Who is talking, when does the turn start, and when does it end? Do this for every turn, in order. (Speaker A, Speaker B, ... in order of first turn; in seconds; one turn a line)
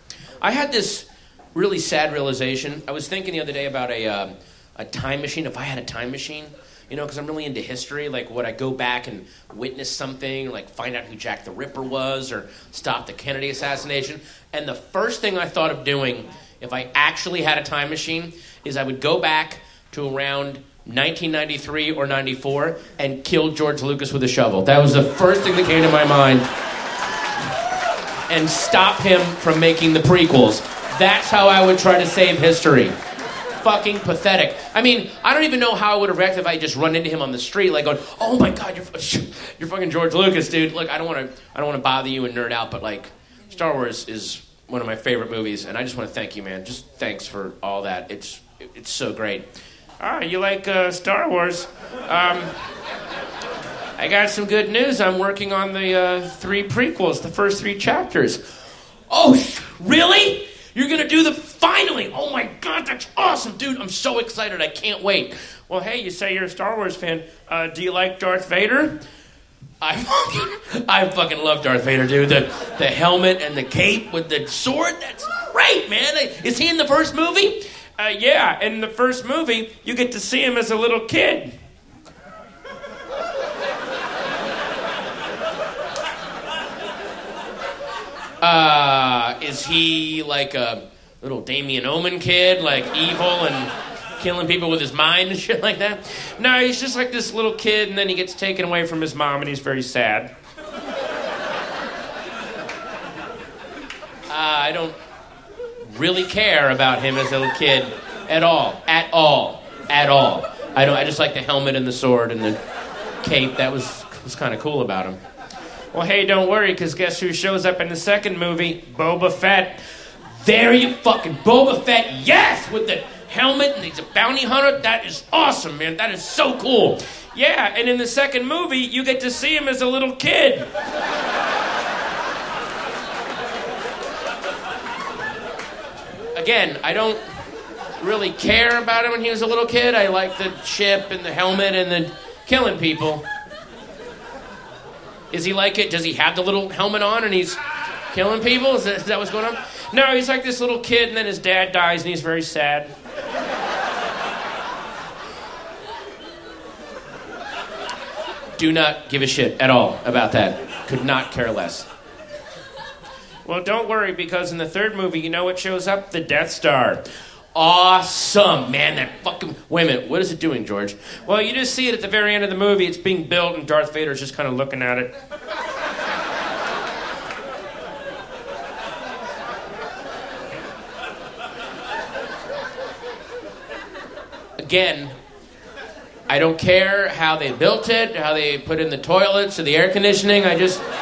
Speaker A: 0.4-26.5
Speaker A: 28.3-32.9
Speaker A: 33.6-49.4
Speaker A: 50.0-52.5
Speaker A: 54.0-58.4
Speaker A: 59.1-69.0
Speaker A: 69.8-81.5
Speaker A: 88.4-100.3
Speaker A: 104.3-104.9
Speaker A: 105.8-112.6
Speaker A: 113.2-115.2
Speaker A: 115.9-130.7
Speaker A: 136.3-137.2
Speaker A: 138.0-143.2
Speaker A: 145.3-147.6
Speaker A: 148.1-152.9
Speaker A: 158.6-161.9
Speaker A: 163.4-167.0
Speaker A: 167.5-175.1
Speaker A: 184.6-185.1
Speaker A: 186.3-190.8